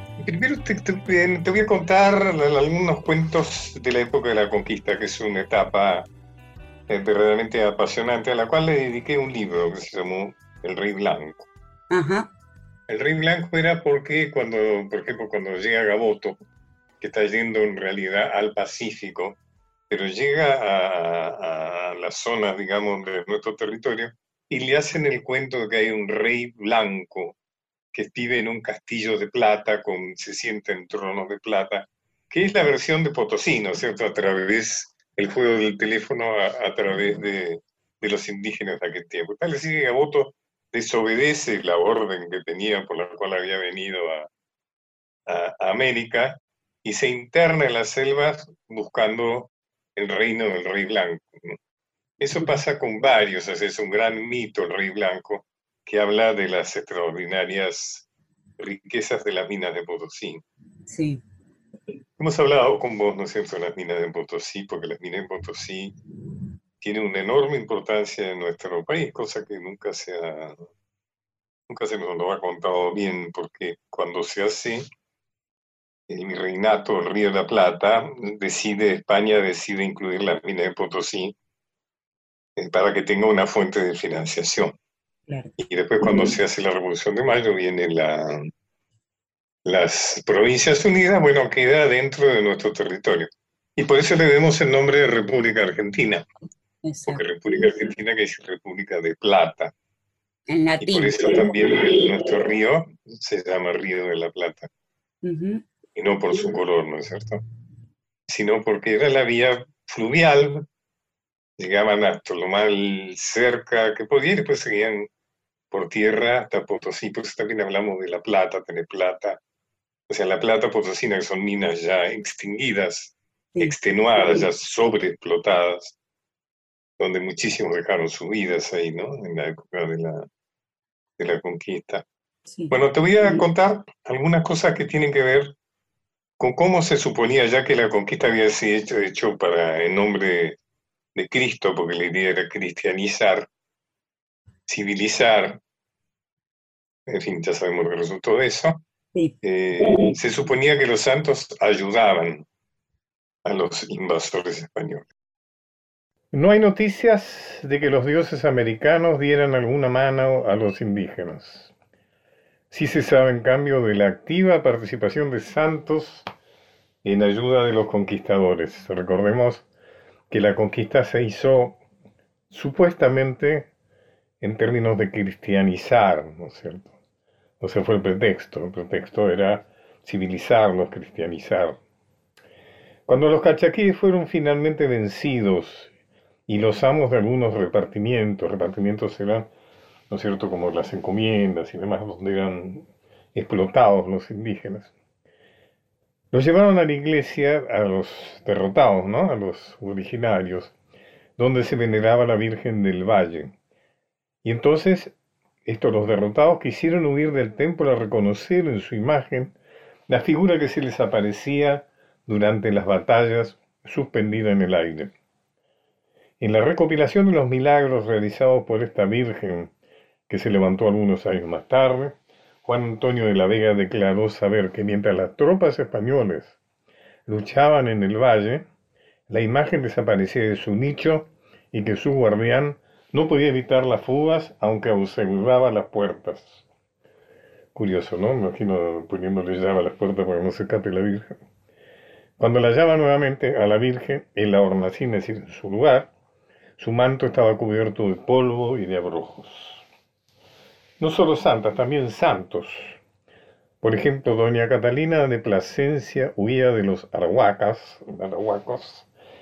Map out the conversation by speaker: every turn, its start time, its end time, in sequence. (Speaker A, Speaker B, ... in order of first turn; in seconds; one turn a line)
Speaker A: 0.2-6.0
Speaker A: 6.9-11.5
Speaker B: 11.9-12.3
Speaker A: 12.9-16.4
Speaker A: 17.0-19.4
Speaker A: 19.9-27.4
Speaker A: 27.9-44.3
Speaker A: 45.3-51.6
Speaker A: 52.2-58.0
Speaker A: 58.6-60.4
Speaker B: 60.9-61.2
Speaker A: 62.2-65.9
Speaker A: 66.8-70.6
Speaker A: 71.7-74.8
Speaker A: 76.1-81.3
Speaker A: 82.6-84.8
Speaker B: 85.3-85.5
Speaker A: 85.6-88.5
Speaker A: 89.6-96.2
Speaker B: 96.8-97.2
Speaker A: 97.1-99.7
Speaker B: 100.5-101.3
Speaker A: 100.8-104.7
Speaker B: 105.2-105.6
Speaker A: 106.0-107.4
Speaker A: 108.3-110.7
Speaker A: 111.6-115.1
Speaker A: 115.7-119.4
Speaker A: 120.1-125.9
Speaker A: 127.0-130.2
Speaker A: 131.2-132.0
Speaker A: 132.7-135.5
Speaker A: 136.4-140.6
Speaker A: 141.1-143.5
Speaker A: 144.7-145.6
Speaker A: 147.1-148.8
Speaker A: 149.4-152.4
Speaker A: 153.4-155.1
Speaker A: 156.3-161.7
Speaker A: 162.7-166.2
Speaker A: 167.0-169.6
Speaker A: 170.3-171.8
Speaker A: 172.5-173.7
Speaker A: 174.4-176.9
Speaker A: 177.6-181.8
Speaker A: 183.1-185.9
Speaker A: 186.5-189.5
Speaker A: 190.1-194.9
Speaker A: 196.3-200.7
Speaker A: 201.4-203.5
Speaker A: 204.4-205.1
Speaker A: 205.6-209.5
Speaker A: 210.1-215.1
Speaker A: 216.4-219.7
Speaker A: 220.3-226.6
Speaker A: 227.3-228.6
Speaker A: 229.3-236.6
Speaker A: 237.7-241.3
Speaker A: 242.4-246.1
Speaker A: 246.8-249.8
Speaker A: 251.0-253.0
Speaker A: 253.8-259.1